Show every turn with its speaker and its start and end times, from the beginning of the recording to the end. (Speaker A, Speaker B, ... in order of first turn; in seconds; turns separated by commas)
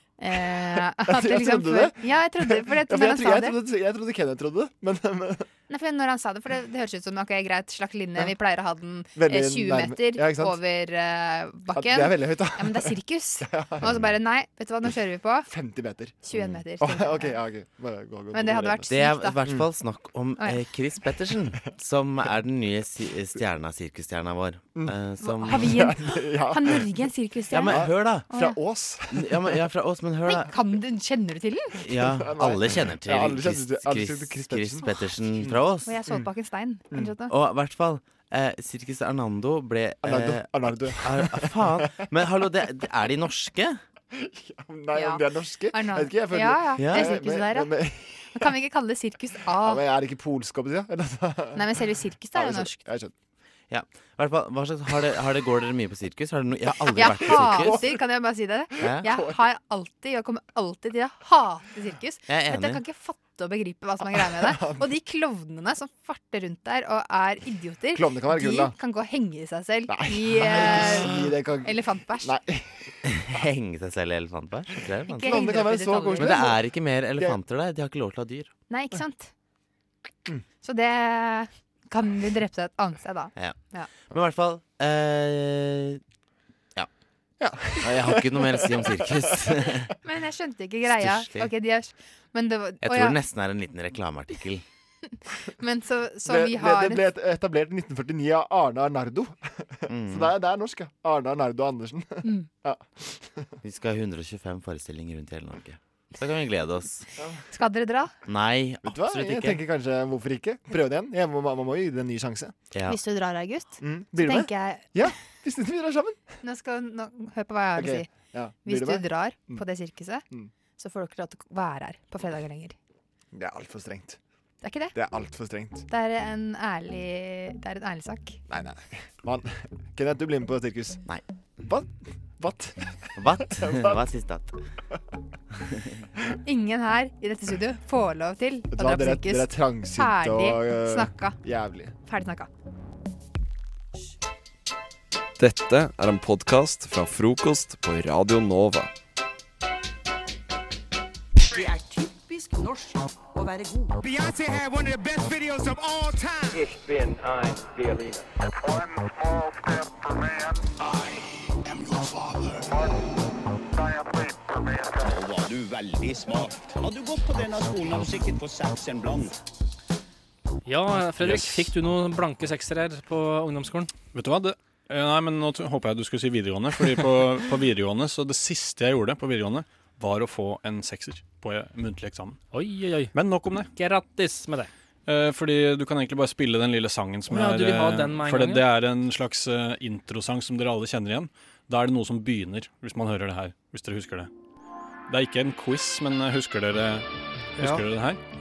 Speaker A: 0.2-3.6, Speaker B: 0.6-5.5, Speaker A: 5.7-15.5, Speaker B: 9.1-10.6, Speaker B: 11.7-14.2, Speaker B: 14.8-19.7, Speaker A: 16.2-17.4, Speaker A: 18.3-19.4, Speaker C: 18.9-25.7, Speaker B: 24.7-27.1, Speaker A: 25.2-28.6, Speaker C: 27.5-28.3, Speaker B: 27.7-29.6, Speaker C: 29.1-30.5, Speaker A: 30.3-31.8, Speaker C: 31.8-36.0, Speaker B: 31.9-36.3, Speaker A: 35.9-37.3, Speaker C: 37.3-43.8, Speaker B: 40.0-42.1, Speaker B: 44.1-48.5, Speaker A: 44.9-47.7, Speaker C: 46.8-47.1, Speaker A: 48.3-49.8, Speaker B: 49.6-51.7, Speaker A: 51.6-52.8, Speaker B: 52.3-53.1, Speaker C: 53.7-57.9, Speaker B: 56.8-58.0, Speaker A: 57.0-72.3, Speaker B: 58.8-59.4, Speaker C: 58.8-59.1, Speaker C: 62.3-62.8, Speaker B: 64.2-64.9, Speaker B: 67.9-68.7, Speaker B: 69.9-72.9, Speaker C: 73.0-75.5, Speaker A: 75.1-76.5, Speaker B: 75.2-77.4, Speaker C: 76.2-78.5, Speaker A: 78.7-79.3, Speaker A: 80.6-83.9, Speaker C: 83.3-86.0, Speaker B: 87.4-89.7, Speaker C: 87.8-89.9, Speaker A: 90.0-93.2, Speaker C: 90.9-91.5, Speaker C: 92.8-94.6, Speaker A: 95.6-97.0, Speaker B: 96.2-103.6, Speaker C: 99.9-100.3, Speaker A: 102.2-102.5, Speaker C: 103.6-107.1, Speaker A: 107.5-108.1, Speaker C: 108.3-109.6, Speaker B: 108.8-112.6, Speaker C: 112.7-113.0, Speaker A: 112.9-115.1, Speaker B: 113.8-116.2, Speaker A: 116.4-118.1, Speaker B: 117.7-119.6, Speaker A: 118.6-120.2, Speaker A: 120.8-122.8, Speaker B: 123.3-124.2, Speaker A: 124.6-125.0, Speaker B: 124.9-125.9, Speaker A: 125.9-128.4, Speaker B: 128.5-131.1, Speaker B: 131.6-134.1, Speaker C: 133.2-134.5, Speaker A: 136.4-141.4, Speaker B: 138.7-141.9, Speaker A: 142.1-142.5, Speaker D: 145.4-148.9, Speaker E: 151.5-154.0, Speaker F: 165.0-169.4, Speaker G: 170.7-173.9, Speaker H: 171.2-171.7, Speaker H: 174.1-182.4, Speaker G: 182.5-183.1, Speaker H: 183.1-183.7, Speaker G: 183.7-184.7, Speaker H: 185.1-194.3, Speaker G: 187.3-188.7, Speaker H: 195.1-198.2